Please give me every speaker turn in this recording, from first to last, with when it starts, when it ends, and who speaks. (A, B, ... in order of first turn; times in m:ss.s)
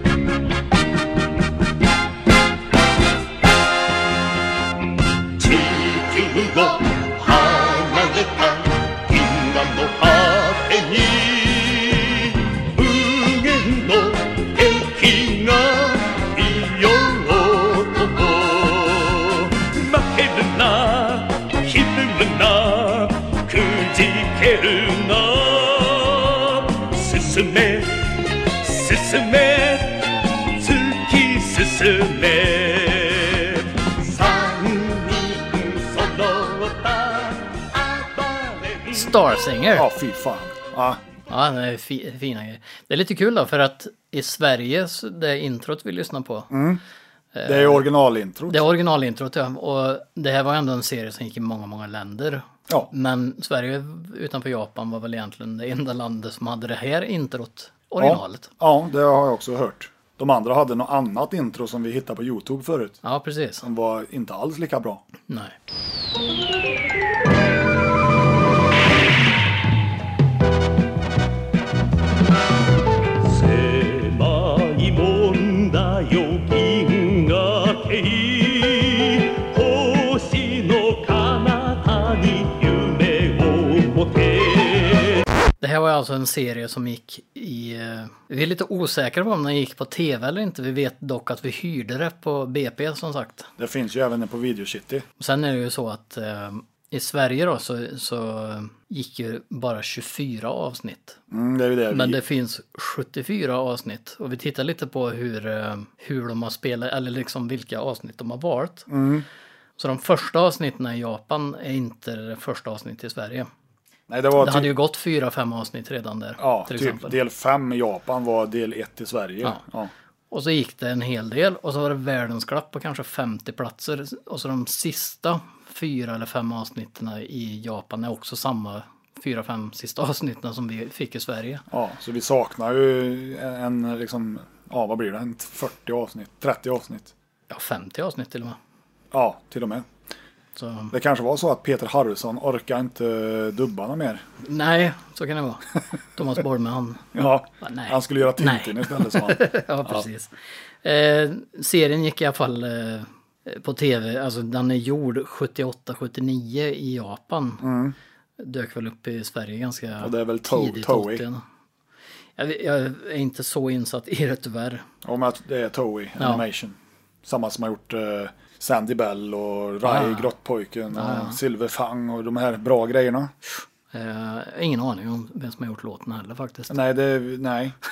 0:05.4-0:39.4 A
0:38.9-0:39.9 B
0:39.7-0:41.0 C
0:41.3-0:46.5 B
0:46.5-0:46.8 C
0:47.3-0:47.8 B
0:47.4-0:48.6 C
0:48.5-0:58.5 B
0:58.0-1:03.0 C
1:03.0-1:03.6 B
1:03.6-1:05.0 C
1:05.3-1:05.5 B
1:13.2-1:25.2 A
1:25.6-1:33.5 B
1:33.6-1:35.0 C
1:35.2-1:41.2 B
1:41.3-1:42.2 C
1:41.9-1:48.9 B
1:48.9-1:49.2 C
1:49.8-1:53.5 B
1:54.1-1:54.7 C
1:54.4-1:57.2 B
1:56.4-1:59.9 C
2:00.3-2:11.6 B
2:11.7-2:17.1 C
2:17.5-2:18.6 B
2:19.1-2:19.9 C
2:20.6-2:20.9 B
2:20.9-2:24.2 C
2:24.4-2:37.6 B
2:27.1-2:30.0 C
2:37.6-2:38.0 C
2:38.4-2:41.4 B
2:40.0-2:41.2 C
2:42.4-2:44.8 B
2:45.0-2:53.3 C
2:46.2-2:46.4 B
2:49.8-2:50.3 B
2:50.9-2:51.4 B
2:53.9-2:56.8 B
2:56.7-2:57.8 C